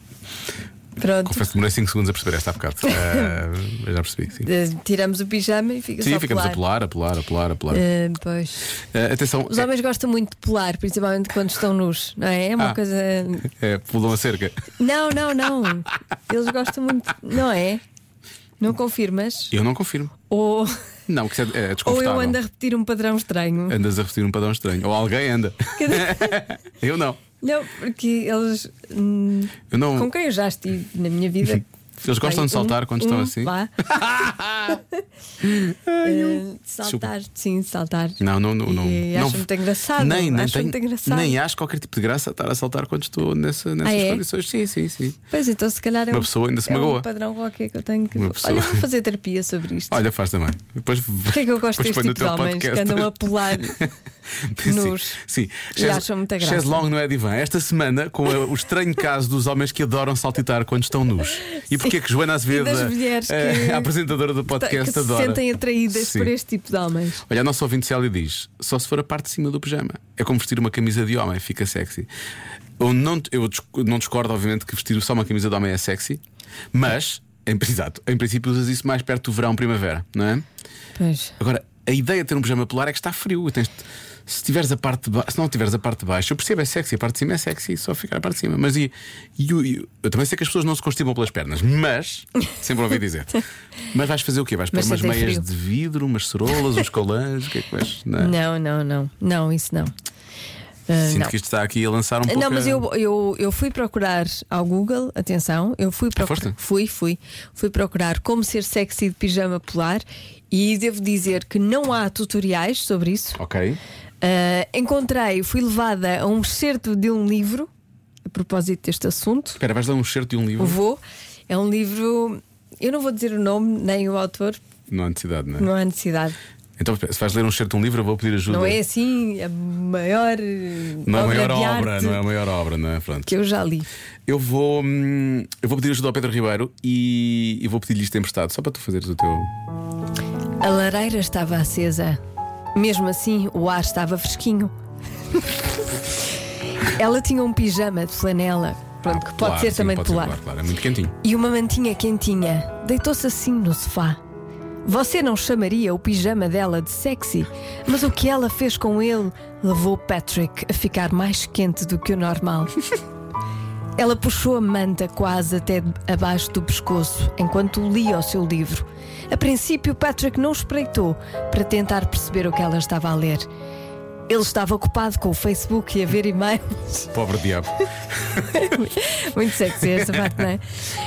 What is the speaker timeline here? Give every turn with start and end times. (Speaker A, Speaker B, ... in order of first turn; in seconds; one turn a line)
Speaker A: 1.0-1.5
Speaker B: 1.3-4.5
Speaker A: 2.9-3.4
Speaker A: 4.4-6.6
Speaker B: 6.0-7.8
Speaker A: 7.7-8.8
Speaker B: 8.9-9.7
Speaker A: 9.5-13.5
Speaker B: 13.4-14.6
Speaker A: 14.8-17.8
Speaker A: 18.6-19.5
Speaker B: 19.5-20.1
Speaker A: 20.3-20.8
Speaker B: 21.1-22.4
Speaker A: 21.9-23.8
Speaker B: 23.7-27.2
Speaker A: 25.8-26.4
Speaker A: 27.4-33.7
Speaker B: 29.7-30.1
Speaker B: 31.5-34.8
Speaker B: 35.4-37.1
Speaker A: 36.0-41.4
Speaker B: 38.2-45.2
Speaker A: 43.8-44.2
Speaker A: 45.3-50.0
Speaker B: 46.1-47.1
Speaker B: 48.1-48.9
Speaker B: 49.9-53.9
Speaker A: 51.3-53.9
Speaker B: 54.4-66.3
Speaker A: 54.7-55.2
Speaker A: 55.7-56.8
Speaker A: 62.5-63.9
Speaker A: 64.5-67.2
Speaker B: 67.3-72.1
Speaker B: 72.8-76.2
Speaker B: 76.7-80.5
Speaker A: 81.0-81.3
Speaker B: 81.4-93.4
Speaker B: 93.9-98.3
Speaker A: 94.7-95.4
Speaker A: 98.2-99.9
Speaker A: 100.9-101.3
Speaker B: 101.0-102.8
Speaker A: 102.3-113.4
Speaker B: 106.2-106.5
Speaker B: 113.4-113.8
Speaker A: 114.2-117.7
Speaker A: 118.3-119.6
Speaker B: 119.6-120.8
Speaker A: 120.6-124.6
Speaker B: 124.9-125.7
Speaker A: 125.6-126.4
Speaker B: 126.8-128.8
Speaker A: 128.5-132.2
Speaker B: 131.1-133.3
Speaker A: 133.3-133.9
Speaker B: 134.3-139.5
Speaker A: 140.6-142.2
Speaker A: 142.8-144.7
Speaker A: 145.3-146.0
Speaker A: 146.8-150.4
Speaker B: 149.1-151.2
Speaker A: 151.2-154.2
Speaker A: 154.8-162.8
Speaker A: 164.0-173.5
Speaker A: 174.3-177.1
Speaker B: 177.1-178.7
Speaker A: 178.5-180.7
Speaker B: 179.8-180.4